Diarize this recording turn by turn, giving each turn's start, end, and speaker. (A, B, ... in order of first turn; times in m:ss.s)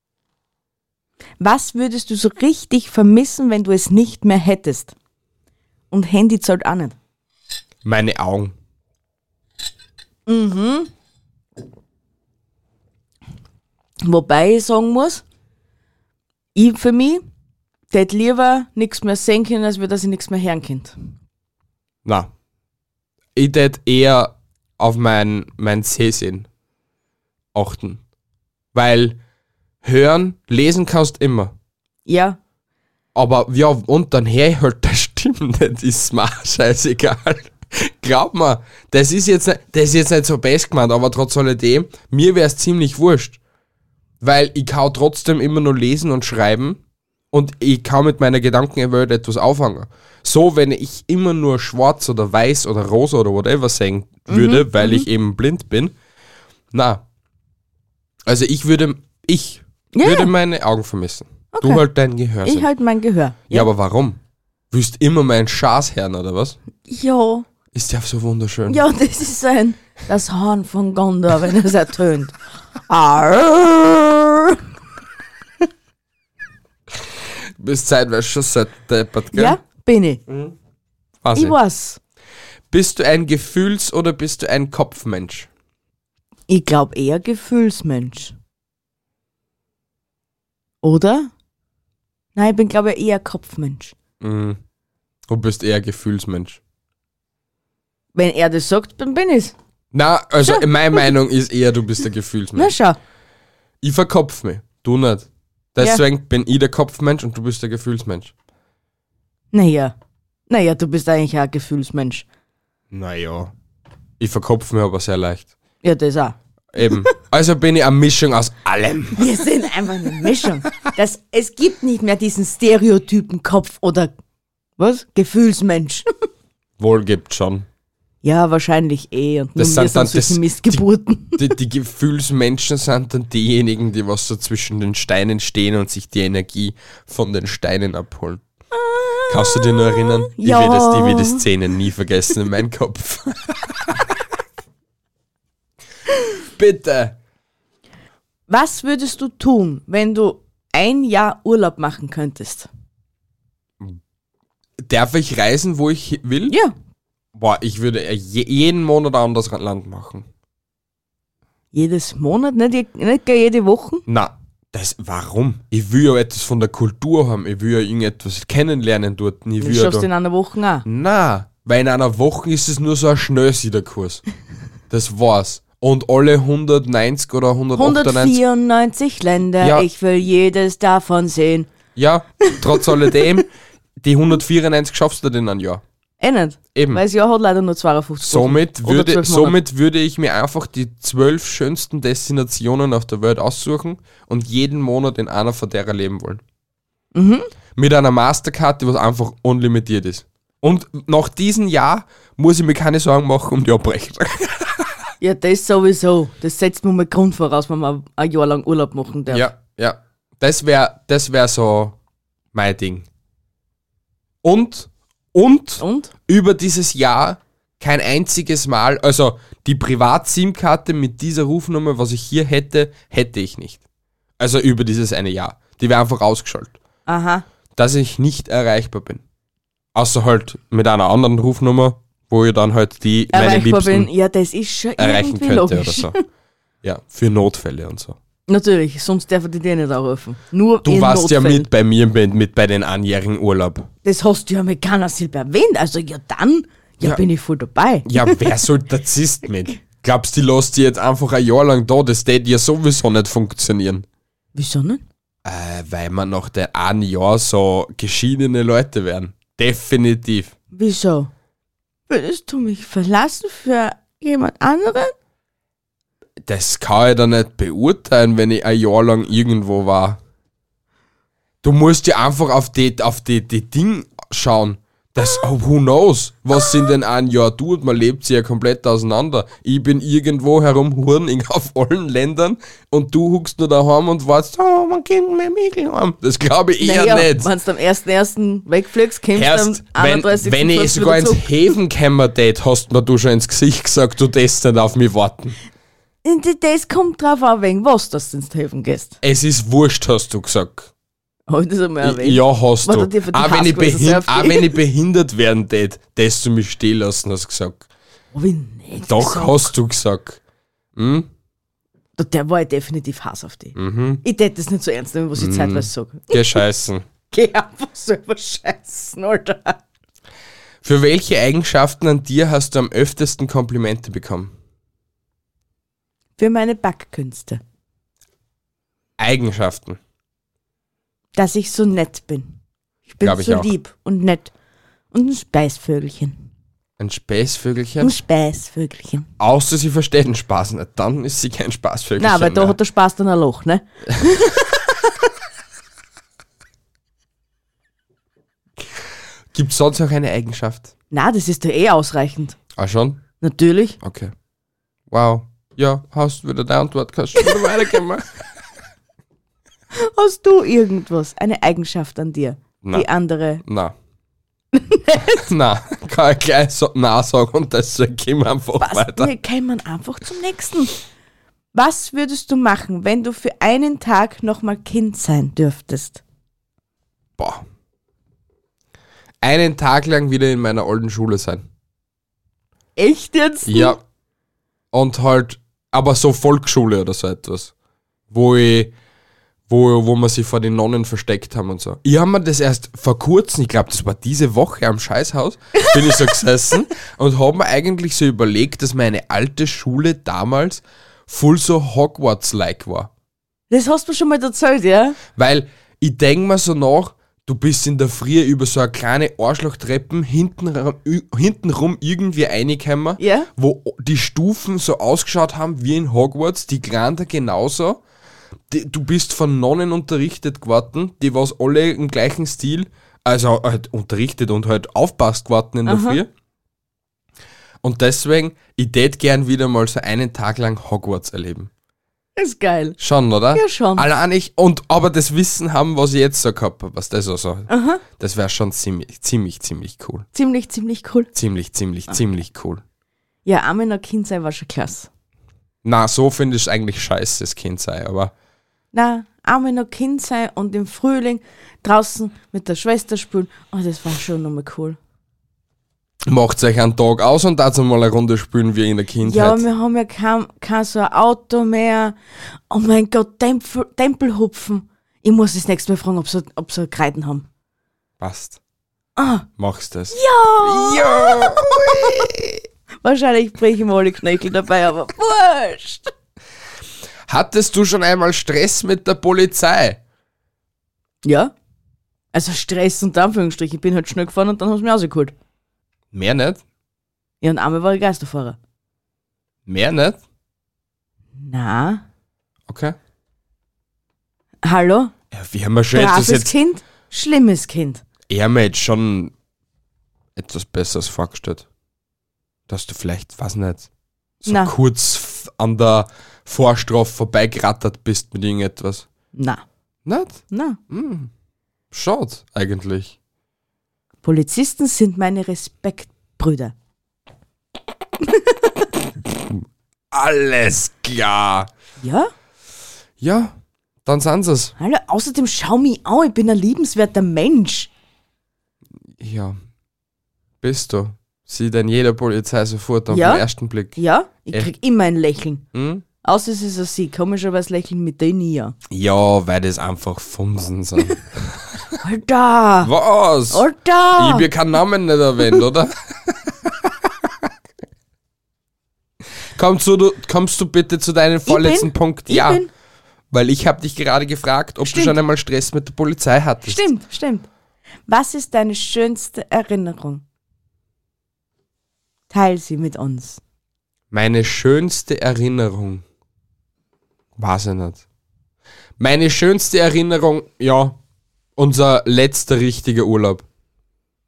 0:01.4-0:04.9 A
0:05.9-0:06.9 A
0:07.8-0:08.5 B
0:10.3-0:10.9 A
0:14.0-0:15.2 A
0:16.5-0:17.2 A
0:17.9-0:20.9 A
0:22.0-0:22.3 B
0:23.4-0:26.5 B
0:27.5-0:28.0 B
0:28.7-0:29.2 B
0:29.8-0:31.5 B
0:32.0-0:32.4 A
0:33.1-0:43.4 B
0:44.2-0:46.8 B
0:47.3-0:55.9 B
0:54.3-0:55.0 A
0:56.7-0:57.0 B
0:58.2-1:02.7 B
0:59.9-1:00.3 A
1:01.5-1:01.8 A
1:02.4-1:03.7 A
1:03.5-1:04.2 B
1:04.7-1:06.6 B
1:06.9-1:07.4 A
1:07.7-1:08.8 B
1:08.7-1:12.4 A
1:12.9-1:14.6 A
1:17.6-1:19.6 B
1:19.3-1:20.2 A
1:20.3-1:20.5 B
1:21.2-1:21.6 B
1:21.3-1:22.0 A
1:22.7-1:25.5 B
1:26.5-1:28.3 A
1:30.8-1:31.3 A
1:32.4-1:33.9 A
1:34.2-1:34.6 B
1:35.3-1:36.6 B
1:38.1-1:39.5 A
1:39.9-1:42.7 B
1:42.5-1:43.0 A
1:43.8-1:48.3 B
1:49.5-1:49.9 A
1:50.5-1:52.2 A
1:52.9-1:53.5 B
1:54.2-1:55.5 B
1:55.8-1:56.4 A
1:56.7-1:59.2 B
1:59.2-2:04.1 A
2:04.8-2:06.1 A
2:06.8-2:07.6 B
2:08.2-2:11.5 A
2:09.6-2:10.8 B
2:11.4-2:18.4 B
2:18.7-2:21.4 A
2:19.3-2:24.0 B
2:26.6-2:27.2 B
2:28.5-2:32.7 A
2:34.8-2:36.6 B
2:36.5-2:36.7 A
2:37.3-2:40.3 B
2:41.7-2:44.0 A
2:44.1-2:50.1 B
2:49.6-2:50.8 A
2:50.8-2:54.2 B
2:54.9-2:58.4 B
2:57.8-3:01.7 A
2:59.6-2:59.9 B
3:02.0-3:03.5 B
3:02.4-3:02.8 A
3:04.0-3:05.8 B
3:06.2-3:09.6 A
3:06.7-3:07.0 B
3:08.2-3:16.4 B
3:17.1-3:17.5 A
3:17.8-3:24.9 B
3:25.2-3:29.5 A
3:29.3-3:32.0 B
3:32.5-3:33.1 B
3:34.4-3:43.8 B
3:35.8-3:36.1 A
3:44.4-3:46.7 B
3:47.0-3:47.4 A
3:47.8-3:49.2 B
3:49.9-3:54.1 B
3:53.3-3:56.2 A
3:55.0-3:56.2 B
3:56.8-3:58.2 B
3:58.5-4:01.7 A
4:00.8-4:03.9 B
4:04.0-4:08.4 A
4:08.0-4:14.0 B
4:14.5-4:15.0 A
4:15.4-4:20.5 B
4:20.7-4:21.3 A
4:22.1-4:25.1 A
4:26.4-4:30.2 B
4:31.6-4:47.5 B
4:46.8-4:51.7 A
4:49.3-4:55.6 B
4:56.2-4:59.2 A
4:59.2-5:00.9 B
5:01.5-5:04.8 A
5:02.0-5:07.8 B
5:08.3-5:09.7 A
5:09.0-5:10.4 B
5:11.0-5:11.3 B
5:12.2-5:16.6 A
5:13.7-5:14.2 B
5:15.3-5:17.0 B
5:17.3-5:19.8 A
5:20.8-5:24.5 B
5:26.4-5:27.6 A
5:29.2-5:30.0 B
5:31.4-5:32.6 A
5:33.1-5:34.5 A
5:33.2-5:33.7 B
5:35.1-5:36.4 A
5:37.0-5:38.1 B
5:38.0-5:39.3 A
5:39.4-5:42.8 B
5:42.2-5:44.6 A
5:49.5-5:50.9 B
5:51.1-5:52.6 A
5:52.7-5:53.2 B
5:53.4-5:54.0 A
5:54.0-5:54.3 B
5:55.1-5:58.3 B
5:59.9-6:03.6 A
6:03.6-6:03.9 B
6:04.7-6:05.4 A
6:05.3-6:09.3 B
6:08.8-6:11.0 A
6:11.7-6:16.2 A
6:17.4-6:17.6 B
6:19.4-6:21.6 B
6:23.0-6:24.0 A
6:23.6-6:24.0 B
6:24.9-6:27.7 B
6:28.3-6:28.9 B
6:29.7-6:43.1 B
6:43.7-6:45.2 A
6:45.4-6:58.0 B
6:53.2-6:53.5 A
6:58.7-7:06.3 B
7:05.8-7:06.2 A
7:07.8-7:11.7 B
7:12.4-7:13.0 A
7:13.0-7:20.2 B
7:13.5-7:14.0 A
7:17.7-7:18.0 A
7:20.3-7:21.3 A
7:21.3-7:22.8 B
7:23.4-7:25.1 A
7:25.8-7:28.3 B
7:28.9-7:35.0 A
7:36.2-7:39.6 B
7:39.2-7:42.2 A
7:42.7-7:47.4 A
7:48.2-7:48.6 B
7:49.2-7:49.4 A
7:49.6-7:52.6 B
7:50.1-7:52.3 A
7:53.0-7:56.1 A
7:57.3-8:00.0 B
8:01.2-8:01.5 A
8:02.3-8:05.3 A
8:06.1-8:06.6 B
8:07.4-8:08.6 A
8:09.6-8:10.2 B
8:11.4-8:12.0 A
8:12.7-8:13.0 B
8:14.6-8:15.1 A
8:15.3-8:16.5 B
8:15.9-8:18.0 A
8:18.3-8:19.3 B
8:20.4-8:21.6 B
8:22.7-8:23.9 B
8:24.4-8:29.0 B
8:24.4-8:24.7 A
8:29.3-8:29.6 A
8:30.0-8:31.3 B
8:30.5-8:30.8 A
8:31.9-8:33.1 B
8:34.2-8:36.7 A
8:38.2-8:38.8 A
8:40.1-8:41.7 B
8:42.0-8:42.3 A
8:43.2-8:44.7 B
8:44.8-8:47.9 A
8:49.2-8:49.6 B
8:50.6-8:54.0 B
8:53.1-8:55.6 A
8:55.7-8:56.0 B
8:56.2-8:58.7 A
8:58.9-9:01.6 B
9:02.0-9:02.9 A
9:02.8-9:03.6 B
9:03.5-9:04.5 A
9:04.2-9:06.9 B
9:09.5-9:12.6 B
9:11.5-9:12.7 A
9:13.3-9:16.8 B
9:14.8-9:15.2 A
9:16.6-9:17.5 A
9:18.1-9:20.2 A
9:22.3-9:23.4 A
9:24.1-9:26.0 B
9:27.4-9:28.0 B
9:29.0-9:31.0 B
9:31.6-9:33.4 B